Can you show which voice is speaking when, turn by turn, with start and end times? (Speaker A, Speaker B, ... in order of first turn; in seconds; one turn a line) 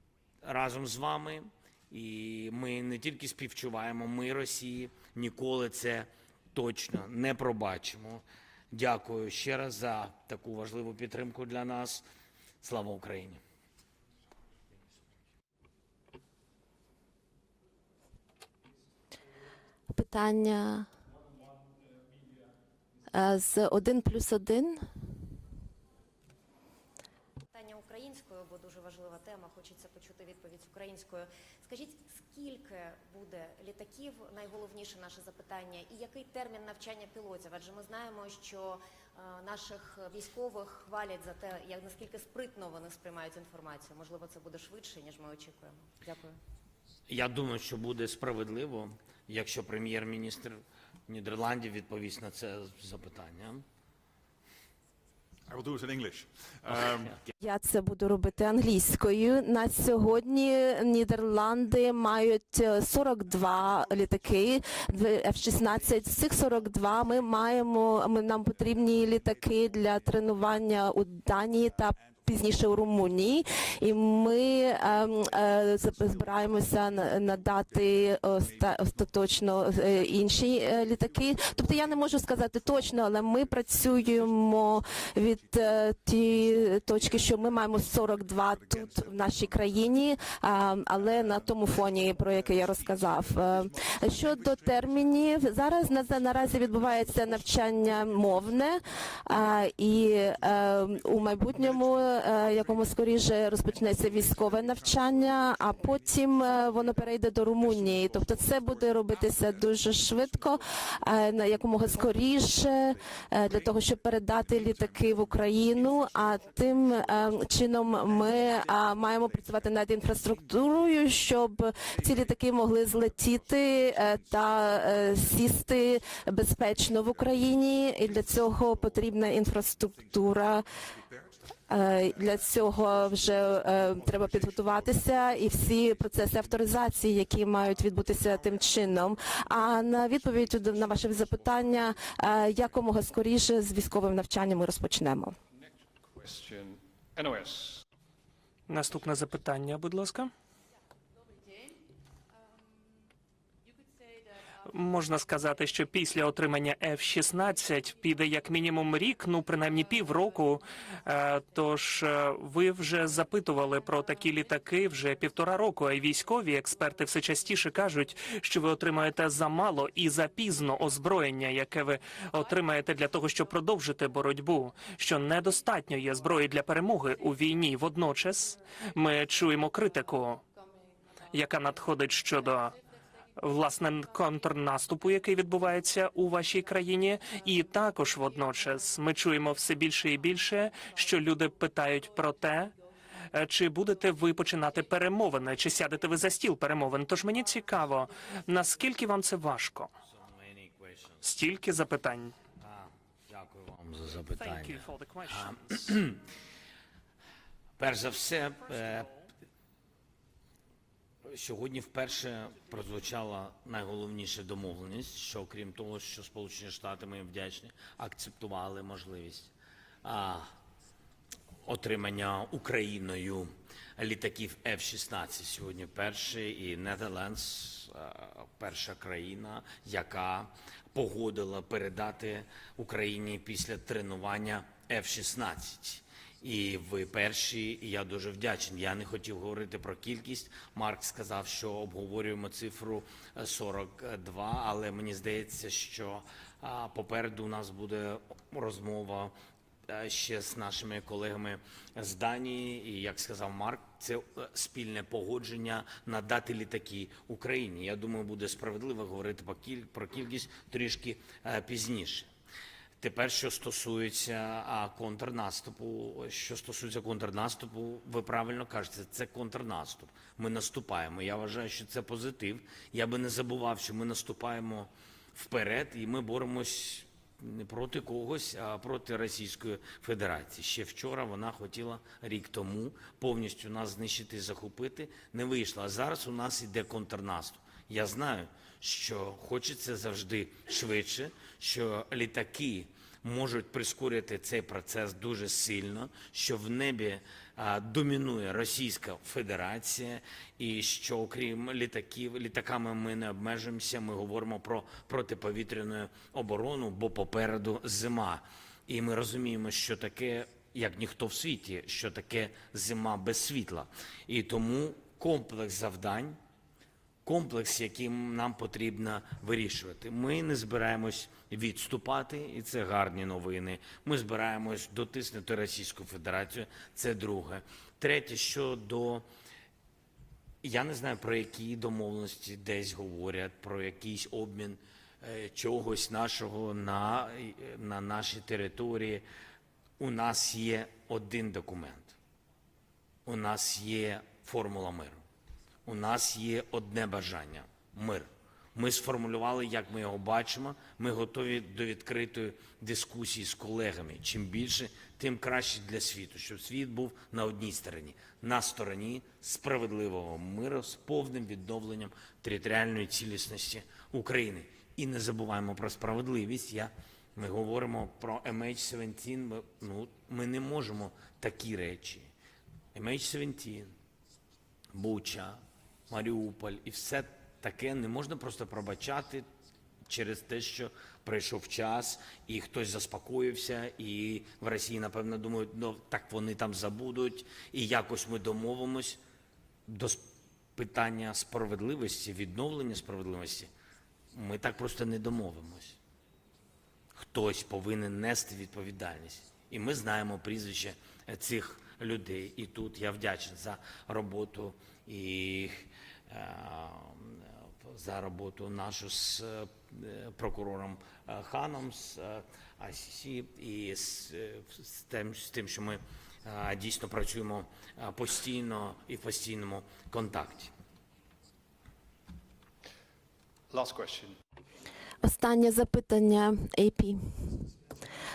Speaker A: 0.4-12.0
Speaker A: 12.6-13.4
Speaker B: 19.9-20.9
Speaker B: 23.1-24.8
Speaker C: 27.5-46.4
Speaker A: 47.1-53.6
Speaker D: 55.5-57.1
Speaker B: 57.4-130.6
Speaker D: 68.6-69.6
Speaker D: 72.0-72.2
Speaker D: 75.0-76.8
Speaker D: 77.7-84.5
Speaker D: 86.4-87.5
Speaker D: 88.5-89.8
Speaker D: 91.1-95.3
Speaker D: 95.8-98.7
Speaker D: 100.1-110.9
Speaker D: 111.7-112.2
Speaker D: 112.9-117.2
Speaker D: 118.1-120.6
Speaker D: 121.8-122.3
Speaker D: 122.9-125.5
Speaker D: 126.9-127.4
Speaker D: 128.0-129.0
Speaker D: 131.0-131.4
Speaker B: 131.7-145.3
Speaker D: 132.0-137.1
Speaker D: 137.8-139.4
Speaker D: 140.1-142.2
Speaker E: 146.0-147.8
Speaker F: 148.7-150.3
Speaker F: 154.7-180.4
Speaker F: 181.3-182.7
Speaker F: 183.4-192.7
Speaker F: 193.3-199.9
Speaker A: 200.1-201.2
Speaker F: 201.2-202.3
Speaker A: 202.6-206.2
Speaker F: 204.3-205.8
Speaker A: 207.8-209.1
Speaker A: 211.2-219.5
Speaker A: 220.0-220.5
Speaker A: 221.7-249.3
Speaker A: 249.9-262.3
Speaker A: 263.0-316.4
Speaker A: 317.2-329.2
Speaker A: 330.6-339.2
Speaker A: 340.0-342.1
Speaker A: 343.2-345.2
Speaker A: 345.9-372.3
Speaker A: 372.9-373.9
Speaker A: 374.9-379.4
Speaker A: 380.1-389.2
Speaker A: 389.9-390.2
Speaker A: 390.8-393.7
Speaker A: 394.3-396.0
Speaker A: 397.2-420.7
Speaker E: 423.7-424.4
Speaker B: 425.2-427.7